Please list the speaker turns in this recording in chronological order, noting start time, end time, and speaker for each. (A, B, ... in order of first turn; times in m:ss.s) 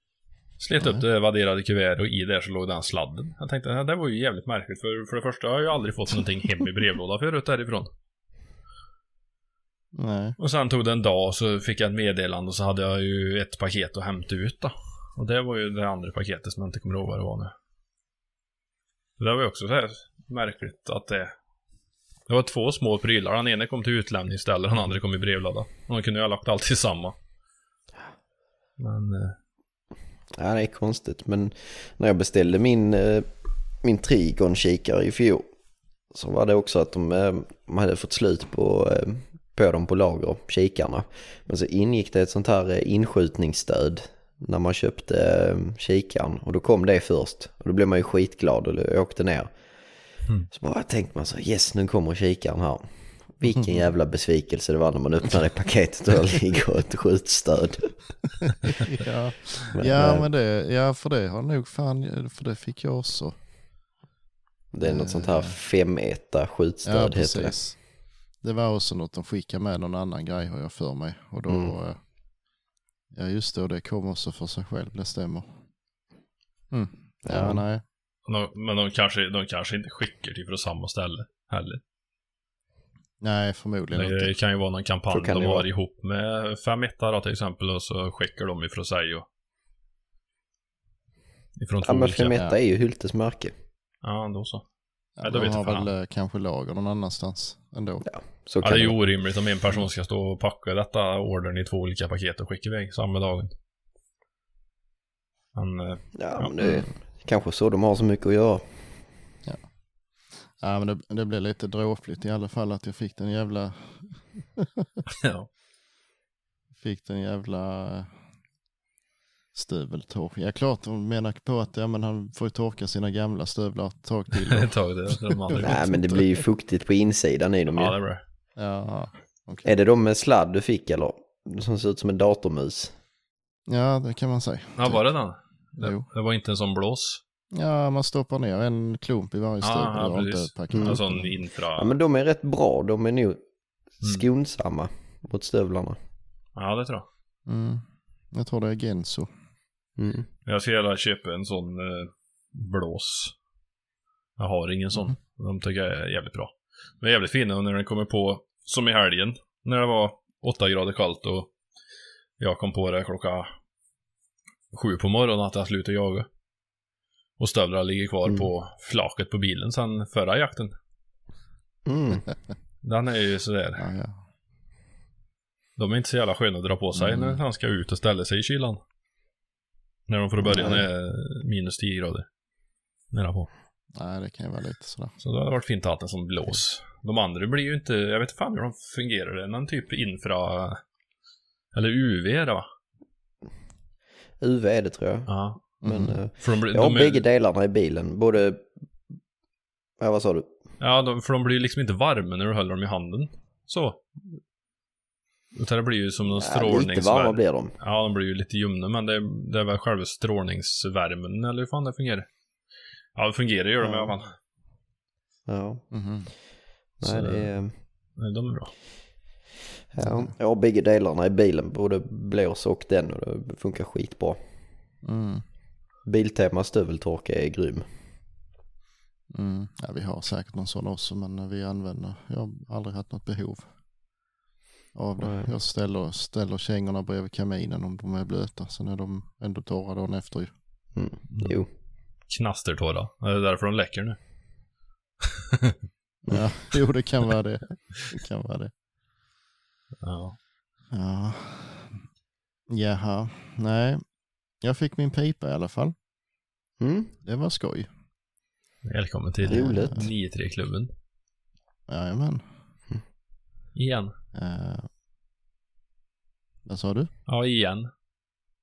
0:00.6-0:07.9 A
0:00.8-0:01.0 B
0:09.9-0:10.4 B
0:10.4-0:17.5 A
0:19.2-0:21.3 A
0:22.3-0:27.1 A
0:28.8-0:29.4 A
0:30.4-0:35.5 C
0:36.1-0:58.2 C
0:53.4-0:53.9 B
0:58.8-1:03.4 B
0:59.7-1:00.3 C
1:04.7-1:07.6 C
1:04.8-1:05.5 B
1:06.8-1:12.0 B
1:11.5-1:11.8 C
1:13.1-1:15.6 B
1:16.7-1:17.8 B
1:17.2-1:17.6 C
1:18.2-1:21.8 A
1:23.2-1:24.3 B
1:23.9-1:29.2 A
1:25.1-1:25.7 C
1:31.6-1:32.4 A
1:31.8-1:33.5 C
1:34.0-1:34.6 A
1:35.2-1:38.0 B
1:35.2-1:35.9 A
1:38.0-1:39.0 C
1:38.6-1:43.5 A
1:45.5-1:46.5 A
1:46.2-1:49.1 C
1:50.4-1:55.0 B
1:55.1-1:55.5 A
1:56.8-1:58.2 B
1:59.5-2:04.7 B
2:04.3-2:06.2 A
2:05.6-2:07.9 C
2:07.7-2:08.2 A
2:08.6-2:09.7 B
2:09.6-2:13.0 C
2:13.7-2:15.0 B
2:14.8-2:17.2 A
2:15.8-2:16.0 B
2:17.5-2:21.3 B
2:19.6-2:21.9 A
2:20.7-2:21.0 C
2:21.8-2:23.4 C
2:24.0-2:26.0 C
2:26.6-2:27.0 A
2:27.4-2:29.3 B
2:30.0-2:30.3 C
2:30.4-2:33.3 A
2:34.4-2:41.5 A
2:42.4-2:43.5 A
2:44.7-2:46.3 A
2:47.4-2:50.7 A
2:51.8-2:52.3 C
2:52.8-2:53.8 A
2:53.8-2:54.2 B
2:55.8-2:58.8 A
2:57.0-2:57.4 B
3:00.1-3:02.3 A
3:00.4-3:00.8 B
3:03.1-3:03.5 A
3:03.9-3:05.1 B
3:05.2-3:10.8 A
3:11.7-3:12.6 A
3:14.4-3:18.7 C
3:15.3-3:15.6 A
3:15.8-3:16.2 B
3:16.4-3:17.2 A
3:20.0-3:20.5 C
3:20.8-3:24.1 A
3:25.5-3:32.3 A
3:26.3-3:27.7 C
3:33.2-3:34.3 A
3:33.8-3:34.1 B
3:35.5-3:35.8 C
3:35.9-3:36.3 B
3:37.0-3:37.7 C
3:37.0-3:38.7 A
3:39.9-3:44.4 C
3:40.0-3:40.3 B
3:45.0-3:45.4 B
3:46.0-3:47.9 C
3:49.3-3:53.7 B
3:54.9-4:00.5 B
3:55.2-3:55.5 C
4:00.9-4:01.7 C
4:02.2-4:04.2 A
4:06.2-4:08.7 B
4:10.0-4:10.4 A
4:10.9-4:12.0 B
4:12.7-4:15.9 B
4:16.8-4:17.1 C
4:17.2-4:17.9 B
4:18.8-4:20.9 A
4:19.5-4:20.0 C
4:19.6-4:20.0 B
4:21.9-4:22.4 B
4:23.7-4:24.1 A
4:24.3-4:24.9 B
4:26.6-4:27.1 B
4:27.3-4:27.9 A